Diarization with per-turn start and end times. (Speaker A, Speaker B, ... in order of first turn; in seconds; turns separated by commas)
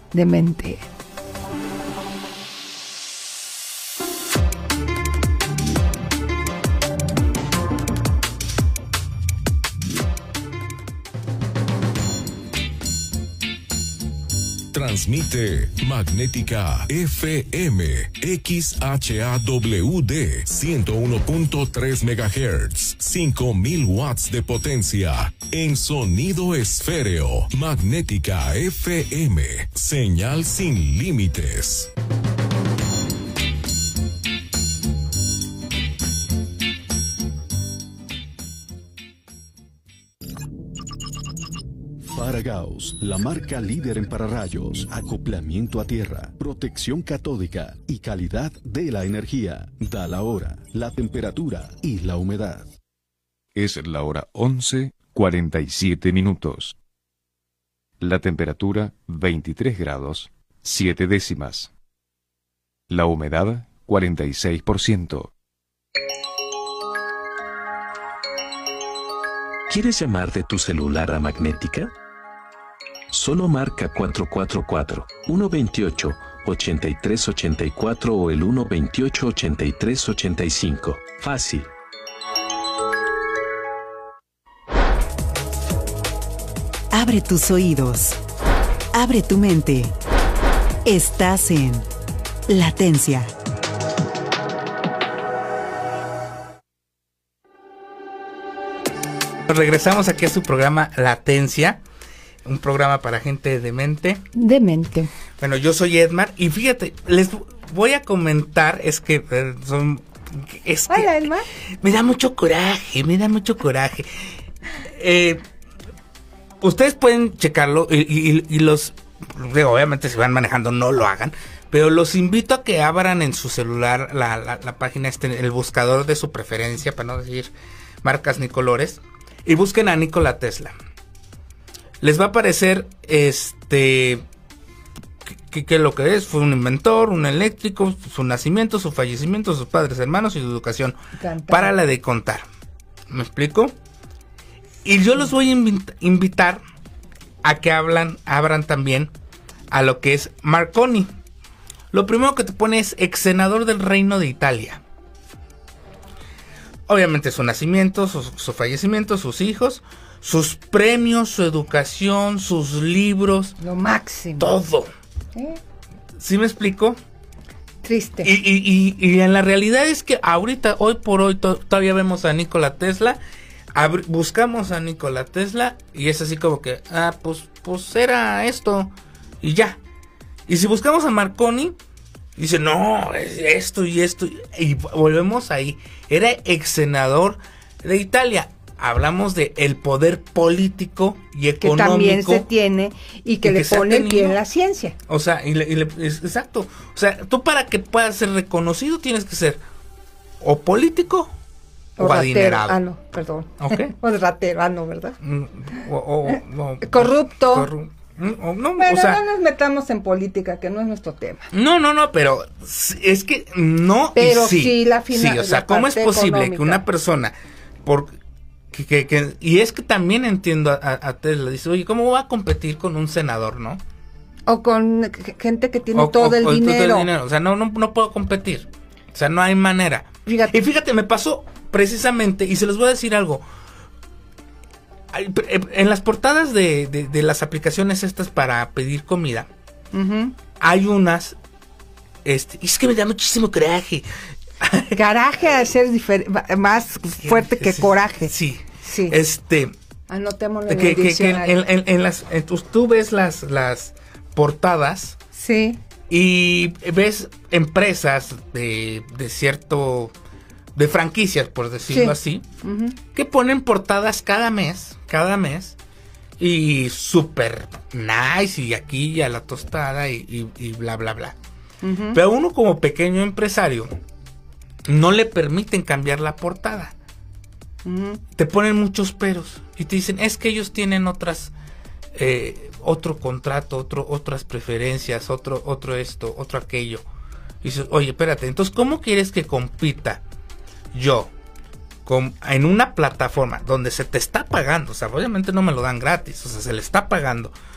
Speaker A: 0.1-0.8, Speaker B: 14.7-31.9, Speaker C: 42.0-52.7, Speaker D: 53.5-56.8, Speaker D: 58.0-61.7, Speaker D: 62.9-65.3, Speaker E: 69.7-71.9, Speaker E: 73.1-81.7, Speaker F: 86.9-88.2, Speaker F: 88.9-89.9, Speaker F: 90.8-91.8, Speaker F: 92.5-93.3, Speaker G: 99.5-101.8, Speaker G: 102.4-104.2, Speaker A: 104.3-105.1, Speaker G: 105.4-111.2, Speaker A: 110.9-111.5, Speaker G: 111.8-114.3, Speaker G: 115.0-115.4, Speaker G: 116.6-127.5, Speaker G: 128.0-130.7, Speaker G: 132.0-134.2, Speaker G: 135.5-141.0, Speaker A: 141.2-141.7, Speaker G: 141.5-142.4, Speaker G: 143.1-143.7, Speaker G: 144.8-146.6, Speaker G: 147.4-149.1, Speaker G: 149.7-151.1, Speaker G: 151.9-154.8, Speaker G: 156.9-163.6, Speaker A: 163.6-164.5, Speaker G: 164.4-164.9, Speaker A: 165.3-165.6, Speaker G: 166.2-167.0, Speaker A: 167.8-168.3, Speaker G: 168.2-173.2, Speaker G: 173.7-179.8, Speaker G: 180.5-181.8, Speaker G: 182.4-192.4, Speaker A: 191.6-194.9, Speaker G: 193.4-194.4, Speaker G: 195.1-199.6, Speaker G: 200.4-201.3, Speaker G: 202.0-202.8, Speaker A: 202.0-205.2, Speaker G: 203.6-203.9, Speaker G: 205.2-209.2, Speaker A: 206.3-207.7, Speaker A: 208.8-211.5, Speaker G: 211.5-217.3, Speaker A: 214.2-216.8, Speaker G: 217.8-218.2, Speaker G: 218.7-223.8, Speaker A: 224.5-227.1, Speaker G: 225.9-233.4, Speaker A: 230.2-230.6, Speaker G: 235.1-239.5, Speaker A: 239.9-240.3, Speaker G: 240.6-241.3, Speaker G: 242.2-244.1, Speaker G: 244.6-245.0, Speaker A: 244.9-248.3, Speaker G: 247.2-249.7, Speaker A: 248.8-249.2, Speaker A: 250.1-251.6, Speaker G: 250.7-255.2, Speaker A: 255.3-255.8, Speaker G: 256.1-260.1, Speaker G: 260.8-262.4, Speaker A: 261.9-263.0, Speaker G: 263.1-265.8, Speaker G: 266.4-271.4, Speaker A: 271.8-272.2, Speaker G: 272.1-273.9, Speaker G: 274.9-276.9, Speaker A: 277.8-278.2, Speaker G: 278.4-281.5, Speaker G: 282.1-287.0, Speaker G: 287.6-290.2, Speaker G: 290.9-291.3, Speaker G: 292.0-297.5